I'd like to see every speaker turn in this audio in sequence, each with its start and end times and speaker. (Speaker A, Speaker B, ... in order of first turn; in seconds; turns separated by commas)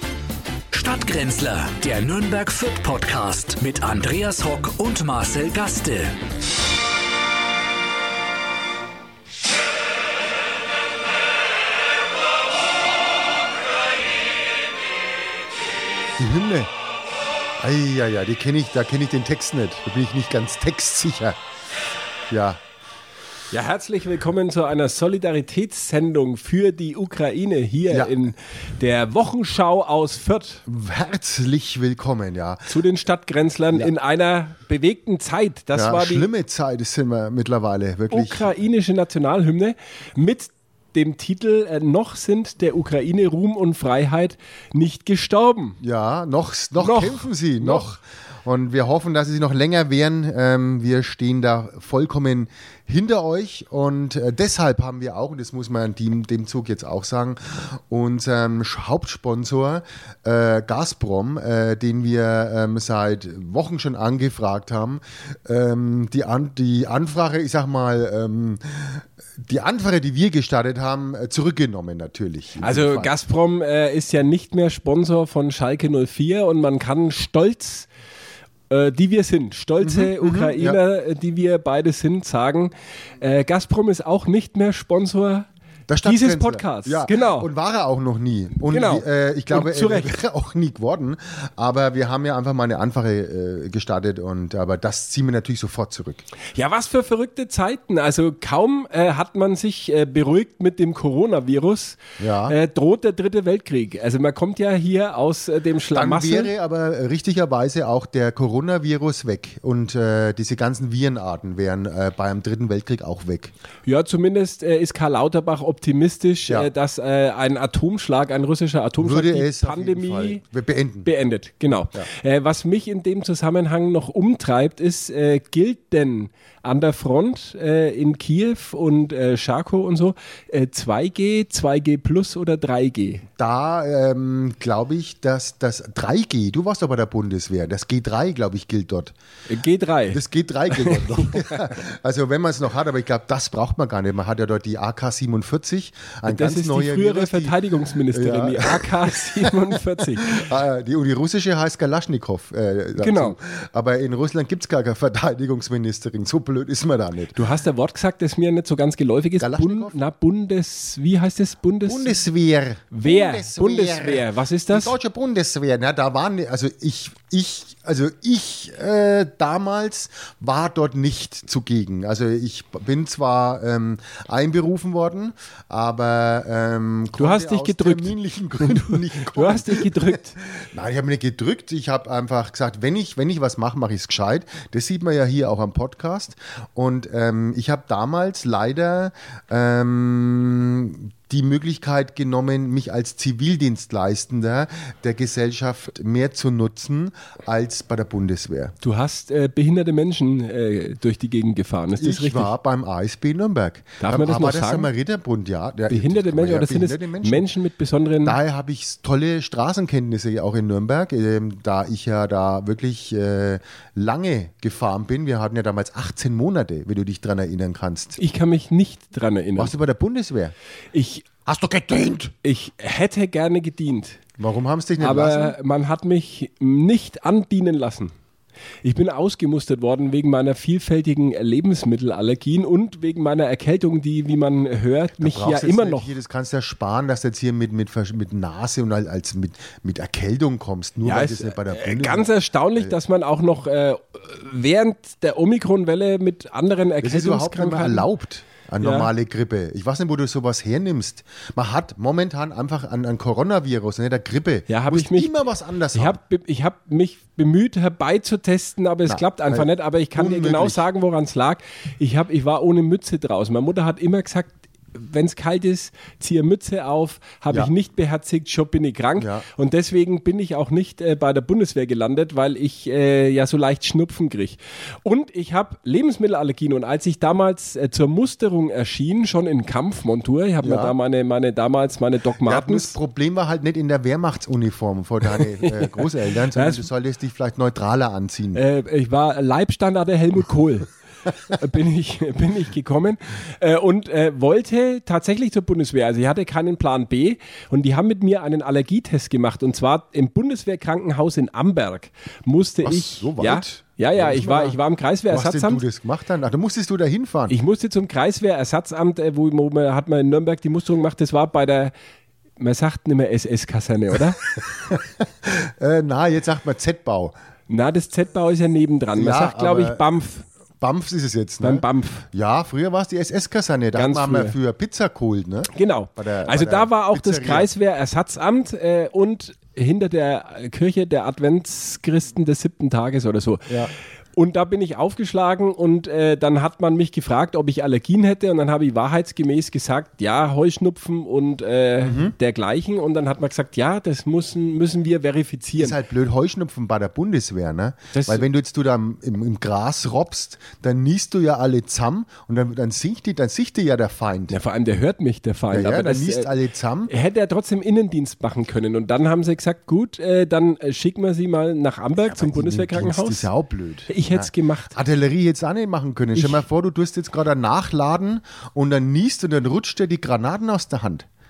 Speaker A: 0.7-6.2, Speaker B: 16.2-16.7, Speaker B: 17.6-21.4, Speaker B: 22.3-22.6, Speaker C: 23.5-30.6, Speaker B: 27.9-28.2, Speaker B: 30.6-32.6, Speaker C: 32.6-36.3, Speaker B: 35.7-38.5, Speaker C: 38.1-45.8, Speaker B: 45.8-73.1, Speaker C: 46.8-47.8, Speaker C: 72.6-77.9, Speaker C: 78.7-85.5, Speaker B: 79.8-80.8, Speaker B: 85.9-96.2, Speaker C: 86.0-87.5, Speaker C: 88.7-90.1, Speaker C: 96.5-106.5, Speaker B: 102.2-102.5, Speaker B: 105.9-113.5, Speaker C: 113.8-120.4, Speaker B: 119.0-121.1, Speaker C: 121.0-133.2, Speaker B: 133.3-139.1, Speaker C: 139.5-141.7, Speaker B: 140.1-147.6, Speaker C: 146.2-150.4, Speaker B: 148.1-157.4, Speaker C: 153.0-153.4, Speaker C: 157.3-162.2, Speaker B: 159.4-160.0, Speaker B: 161.8-198.7, Speaker C: 162.9-164.9, Speaker C: 177.2-180.4, Speaker C: 198.8-202.5, Speaker B: 202.0-207.5, Speaker C: 204.0-204.9, Speaker C: 205.9-208.4, Speaker B: 208.2-218.2, Speaker C: 218.2-219.7, Speaker B: 219.6-220.5, Speaker C: 220.9-221.3, Speaker B: 221.4-222.3, Speaker C: 222.4-224.2, Speaker B: 224.4-225.6, Speaker C: 225.0-228.1, Speaker C: 228.8-236.1, Speaker B: 235.2-242.9, Speaker C: 241.0-248.1, Speaker B: 247.0-256.2, Speaker C: 248.8-249.1, Speaker C: 254.7-255.4, Speaker C: 255.9-282.9, Speaker B: 259.1-260.9, Speaker B: 269.2-269.4, Speaker B: 280.6-280.9, Speaker B: 282.4-288.6, Speaker C: 285.6-286.9, Speaker C: 288.5-290.9, Speaker C: 291.5-305.8, Speaker B: 302.8-304.8, Speaker B: 305.3-307.5, Speaker C: 307.5-311.9, Speaker C: 312.6-314.4, Speaker B: 314.9-317.3, Speaker C: 317.7-320.4, Speaker B: 319.1-320.1, Speaker B: 320.8-327.7, Speaker C: 321.6-322.3, Speaker C: 323.9-324.6, Speaker C: 325.7-333.7, Speaker C: 334.4-346.0, Speaker B: 342.0-342.3, Speaker B: 345.8-354.6, Speaker C: 348.1-348.4, Speaker C: 354.5-356.5, Speaker B: 355.7-357.1, Speaker C: 357.1-363.5, Speaker B: 362.3-371.3, Speaker C: 364.1-364.9, Speaker C: 366.4-366.6